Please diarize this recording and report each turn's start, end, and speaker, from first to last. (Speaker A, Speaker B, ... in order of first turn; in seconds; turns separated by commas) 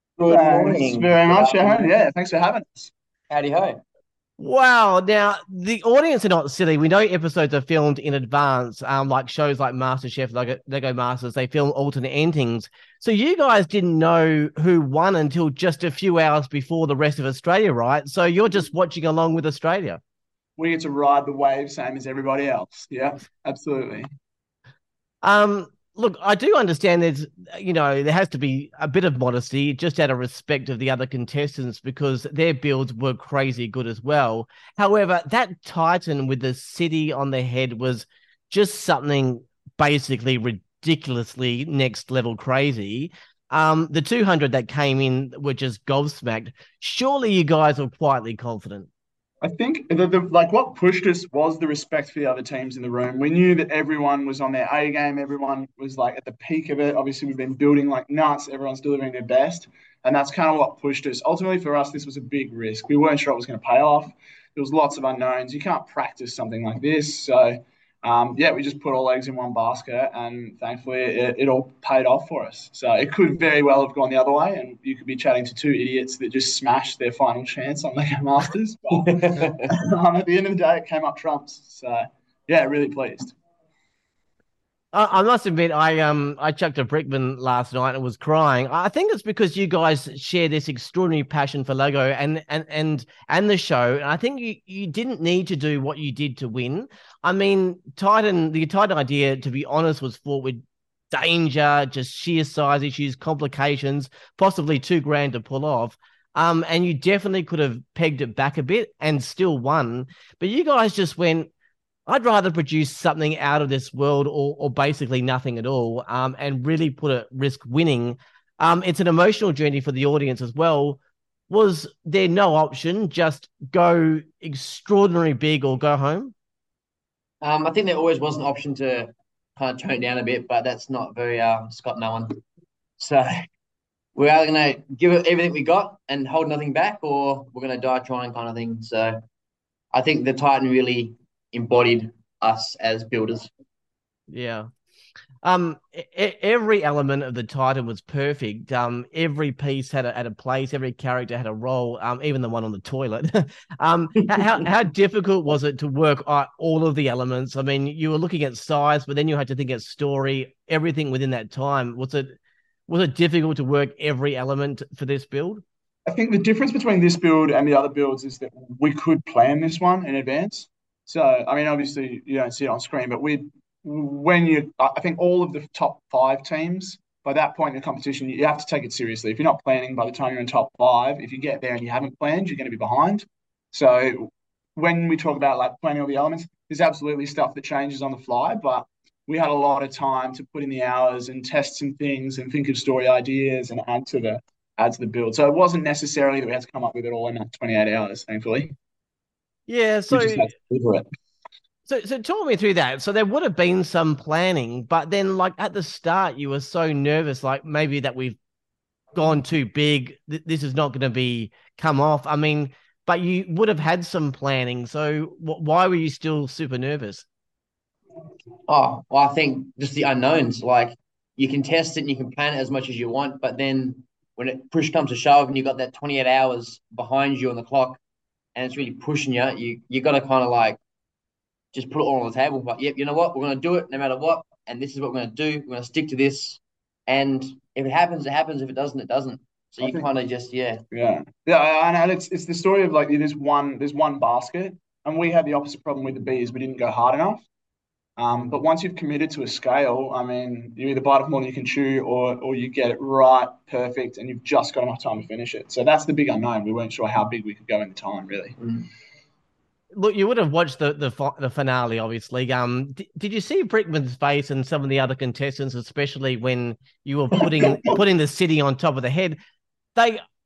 Speaker A: 0.2-1.9, Speaker B: 0.3-2.9, Speaker A: 3.3-3.8, Speaker C: 4.4-20.0, Speaker B: 20.6-24.1, Speaker C: 25.2-48.9, Speaker B: 49.4-83.3, Speaker A: 79.0-79.7, Speaker C: 84.9-100.6, Speaker C: 101.1-111.5, Speaker C: 112.1-126.3, Speaker A: 127.4-132.4, Speaker A: 133.0-133.3, Speaker A: 134.2-139.2, Speaker A: 139.9-143.5, Speaker C: 144.3-144.7, Speaker C: 145.4-162.3, Speaker C: 162.9-165.6, Speaker B: 166.1-198.7, Speaker C: 199.7-200.5, Speaker B: 200.1-201.1, Speaker C: 201.9-208.4, Speaker C: 209.2-217.3, Speaker A: 218.7-228.0, Speaker A: 228.5-230.8, Speaker A: 231.7-240.8, Speaker B: 239.8-240.1, Speaker B: 240.9-247.4, Speaker B: 248.2-258.6, Speaker A: 258.6-258.9, Speaker C: 259.9-269.4, Speaker B: 267.5-267.8, Speaker C: 270.0-270.2